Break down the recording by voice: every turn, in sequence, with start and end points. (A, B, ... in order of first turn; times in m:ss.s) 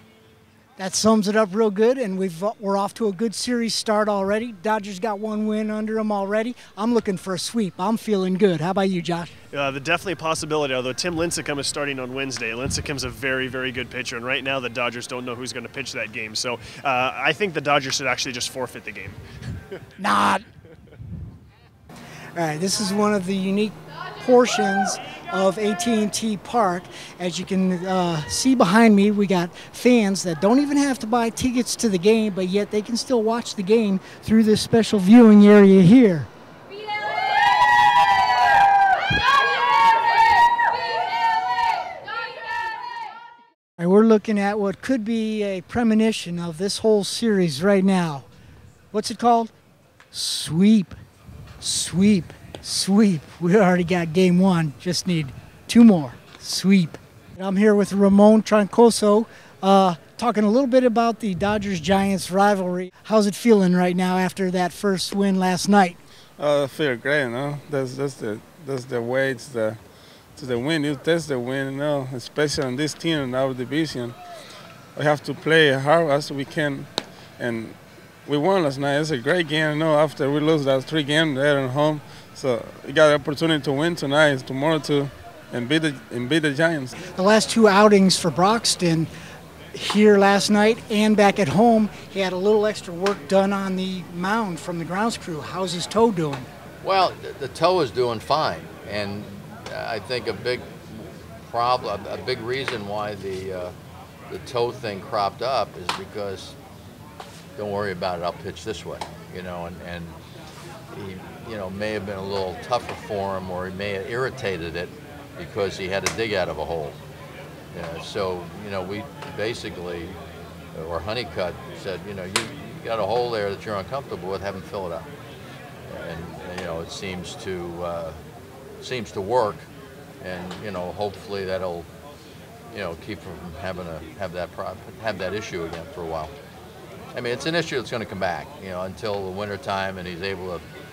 0:00.8-0:09.3 A
0:09.5-0:19.2 B
0:20.0-0:20.4 A
0:22.4-0:36.3 A
0:43.8-0:48.2 A
0:48.9-0:49.5 A
0:50.1-0:50.9 A
0:51.6-1:06.0 A
1:06.4-1:09.8 C
1:10.3-1:14.2 C
1:14.9-1:26.9 C
1:27.1-1:29.1 A
1:29.7-1:36.5 A
1:36.8-1:43.7 D
1:44.3-1:46.6 D
1:47.6-1:50.2 D
1:50.9-1:57.0 D
1:57.7-2:00.2 D
2:00.7-2:05.1 D
2:05.9-2:08.2 D
2:08.8-2:09.7 D
2:10.2-2:11.9 D
2:12.7-2:16.3 D
2:17.1-2:20.6 D